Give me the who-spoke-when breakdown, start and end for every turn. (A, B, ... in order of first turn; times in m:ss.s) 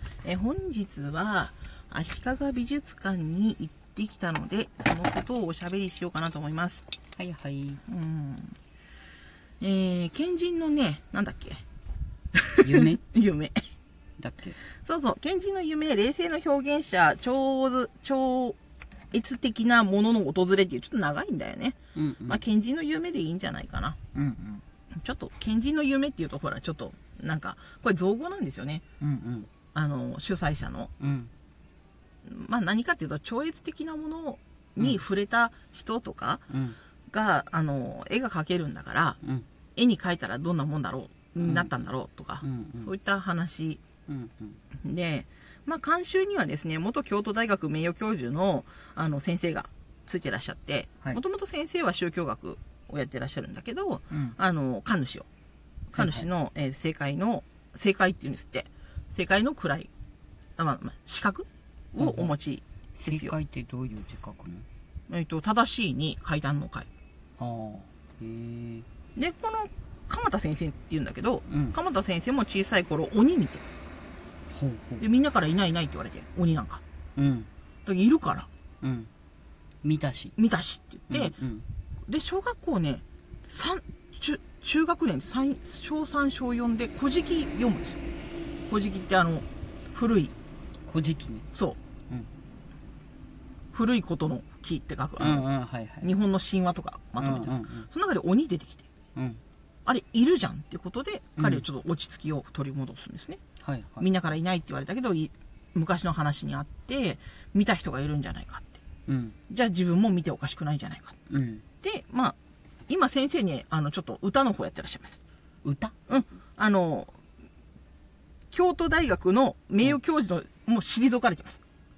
0:00.2-0:06.8 A
0:07.2-0:07.8 B
0:07.9-0:08.6 A
0:09.6-0:11.6 A
0:12.4-0:13.6 A
0:12.6-0:13.0 B
0:14.2-0:14.6 B
0:14.8-0:18.6 A
0:19.1-0:24.0 A
0:22.0-0:22.4 B
0:24.1-0:24.6 B
0:25.0-0:28.8 A
0:29.0-0:29.5 B
0:29.7-0:30.9 A
0:31.0-0:31.3 B
0:32.2-0:36.4 A
0:36.5-0:36.8 B
0:37.1-0:39.2 A
0:39.8-0:43.8 A
0:41.4-0:41.7 B
0:42.4-0:42.9 B
0:44.1-0:44.6 B
0:44.8-0:55.3 A
0:54.1-0:54.4 B
0:55.9-0:59.9 A
0:55.9-0:56.3 B
1:00.6-1:03.4 A
1:02.0-1:02.3 B
1:03.0-1:04.7 B
1:05.1-1:06.9 A
1:07.4-1:08.9 B
1:09.2-1:13.6 A
1:11.5-1:11.8 B
1:14.5-1:15.0 B
1:15.0-1:16.8 A
1:17.2-1:17.5 B
1:17.9-1:18.5 A
1:18.8-1:19.1 B
1:19.8-1:20.4 B
1:20.4-1:21.3 A
1:21.1-1:21.7 B
1:22.1-1:28.0 A
1:28.7-1:30.3 A
1:30.9-1:31.5 B
1:33.7-1:35.5 A
1:35.2-1:36.1 B
1:36.0-1:38.9 A
1:37.2-1:37.9 B
1:39.2-1:39.4 B
1:39.9-1:43.4 A
1:41.4-1:41.6 B
1:43.6-1:44.1 B
1:44.0-1:48.8 A
1:49.1-1:49.4 B
1:49.5-1:51.2 A
1:51.3-1:51.6 B
1:51.8-1:52.4 A
1:52.9-1:55.2 A
1:55.6-1:55.9 B
1:56.1-1:57.1 A
1:58.5-2:01.6 A